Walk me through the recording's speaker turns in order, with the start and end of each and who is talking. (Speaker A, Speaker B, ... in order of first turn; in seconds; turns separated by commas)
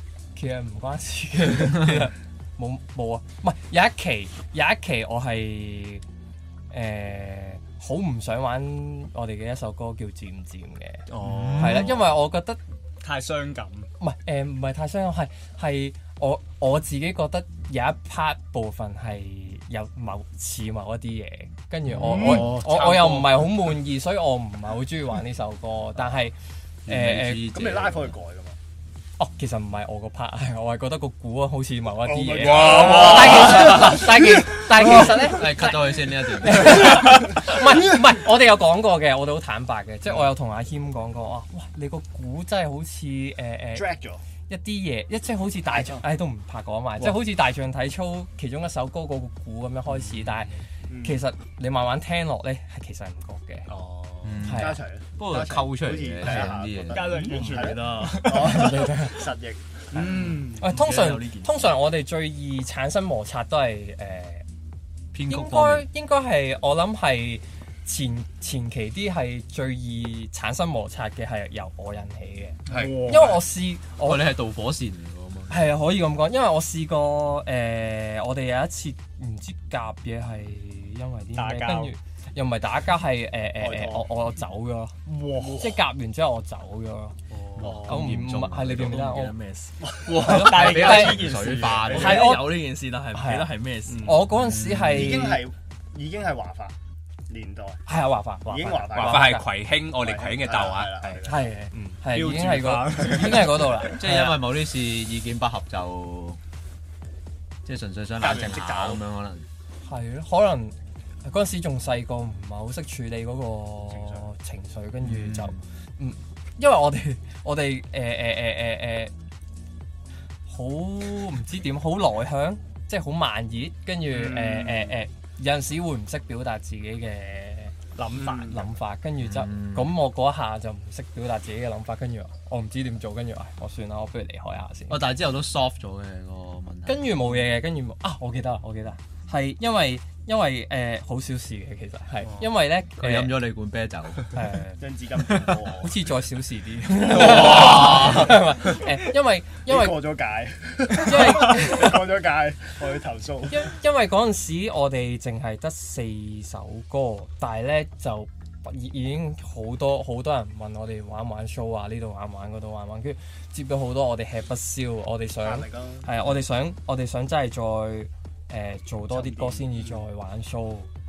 Speaker A: 0.3-6.0, Speaker A: 6.7-12.6, Speaker B: 11.1-11.8, Speaker C: 11.2-12.1, Speaker D: 13.0-13.9, Speaker A: 14.0-26.4, Speaker B: 22.3-23.3, Speaker C: 26.9-28.2, Speaker A: 26.9-27.5, Speaker E: 27.5-28.6, Speaker A: 29.2-43.9, Speaker E: 32.1-34.0, Speaker B: 32.4-33.8, Speaker C: 34.8-37.3, Speaker E: 43.7-44.2, Speaker A: 44.5-53.7, Speaker E: 45.7-46.0, Speaker B: 49.9-50.4, Speaker E: 50.9-51.2, Speaker B: 53.7-54.4, Speaker C: 54.2-57.1, Speaker A: 54.4-54.8, Speaker E: 54.5-60.6, Speaker D: 56.9-58.9, Speaker F: 57.3-58.3, Speaker A: 58.3-59.3, Speaker B: 59.9-60.5, Speaker F: 60.3-61.7, Speaker A: 60.4-64.5, Speaker C: 65.1-65.9, Speaker A: 65.3-74.4, Speaker B: 72.7-73.2, Speaker D: 72.7-73.4, Speaker C: 74.0-75.6, Speaker A: 75.5-89.4, Speaker D: 81.3-82.0, Speaker E: 83.6-84.1, Speaker D: 85.0-85.8, Speaker D: 87.3-87.9, Speaker C: 87.6-89.1, Speaker F: 88.7-89.9, Speaker D: 90.1-92.3, Speaker A: 90.1-91.3, Speaker C: 90.2-92.3, Speaker A: 91.9-95.5, Speaker F: 91.9-94.2, Speaker B: 93.9-94.1, Speaker C: 94.3-95.3, Speaker E: 94.9-96.8, Speaker E: 97.3-97.8, Speaker A: 97.9-99.5, Speaker E: 98.5-99.4, Speaker B: 98.9-102.0, Speaker E: 99.9-101.5, Speaker A: 101.2-104.4, Speaker D: 102.0-103.9, Speaker C: 103.9-106.4, Speaker C: 107.7-109.5, Speaker E: 108.2-109.0, Speaker A: 109.8-119.1, Speaker C: 115.0-115.6, Speaker A: 120.5-127.8, Speaker E: 124.1-125.0, Speaker D: 128.0-128.7, Speaker A: 128.4-135.1, Speaker C: 129.2-129.9, Speaker C: 134.9-137.2, Speaker A: 136.9-143.4, Speaker C: 143.0-144.4, Speaker A: 144.3-144.9, Speaker E: 144.8-146.0, Speaker A: 145.8-150.0, Speaker C: 147.0-148.4, Speaker E: 149.7-153.7, Speaker A: 150.9-152.0, Speaker A: 153.5-170.9, Speaker E: 165.4-166.1, Speaker E: 169.1-170.0